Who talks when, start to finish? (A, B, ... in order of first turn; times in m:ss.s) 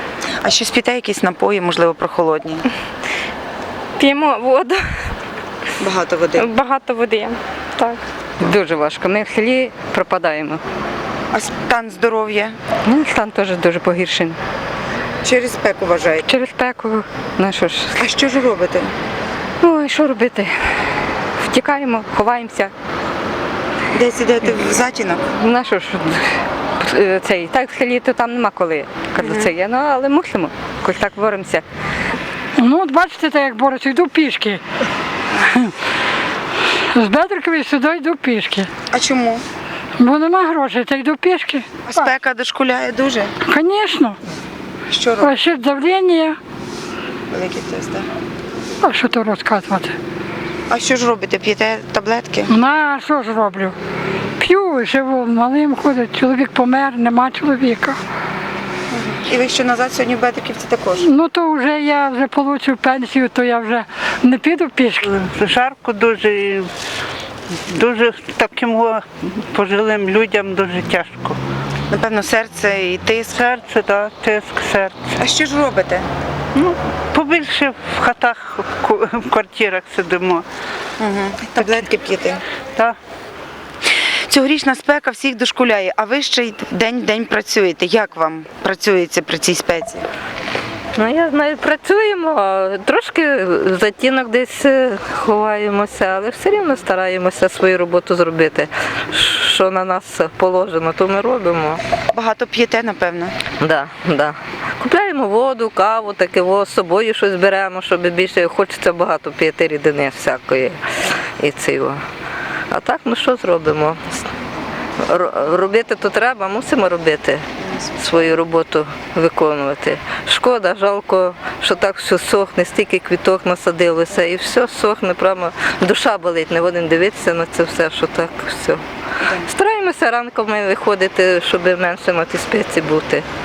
0:00.4-0:02.6 A
0:04.0-0:04.7 B
0:05.8-0:06.5 A
0:06.4-0:08.0 B
0:08.4-0:10.6 C
0:11.3-0:12.5 A
0:12.8-0:14.4 C
0:15.2-0:16.3 A
0:16.2-0:18.0 C
0:18.0-0:18.9 A
0:19.6-0:20.5 C
0:21.4-0:22.7 C
0:23.9-0:25.2 A
0:25.3-0:26.2 C
0:26.8-0:31.6 C
0:29.2-0:29.5 A
0:32.6-0:34.6 D
0:36.9-0:38.7 D
0:38.9-0:39.4 A
0:40.0-0:42.0 D
0:41.9-0:43.3 A
0:43.5-0:44.2 D
0:44.9-0:45.3 A
0:45.2-0:46.4 D
0:47.3-0:48.0 A
0:48.8-0:49.9 D
0:50.7-0:52.5 A
0:52.5-0:53.7 D
0:54.4-0:58.0 D
0:58.9-1:01.0 A
1:01.0-1:05.0 D
1:05.0-1:06.7 E
1:07.7-1:11.4 E
1:11.9-1:13.4 A
1:13.3-1:15.1 E
1:15.2-1:16.0 A
1:16.5-1:20.4 E
1:21.0-1:22.4 A
1:21.6-1:21.8 E
1:24.3-1:30.0 A
1:31.0-1:41.8 F
1:42.1-1:43.4 A
1:43.6-1:50.8 F
1:51.4-1:52.0 F
1:52.7-1:54.2 F
1:55.1-1:57.4 F
1:58.0-2:08.8 F
2:09.4-2:13.2 F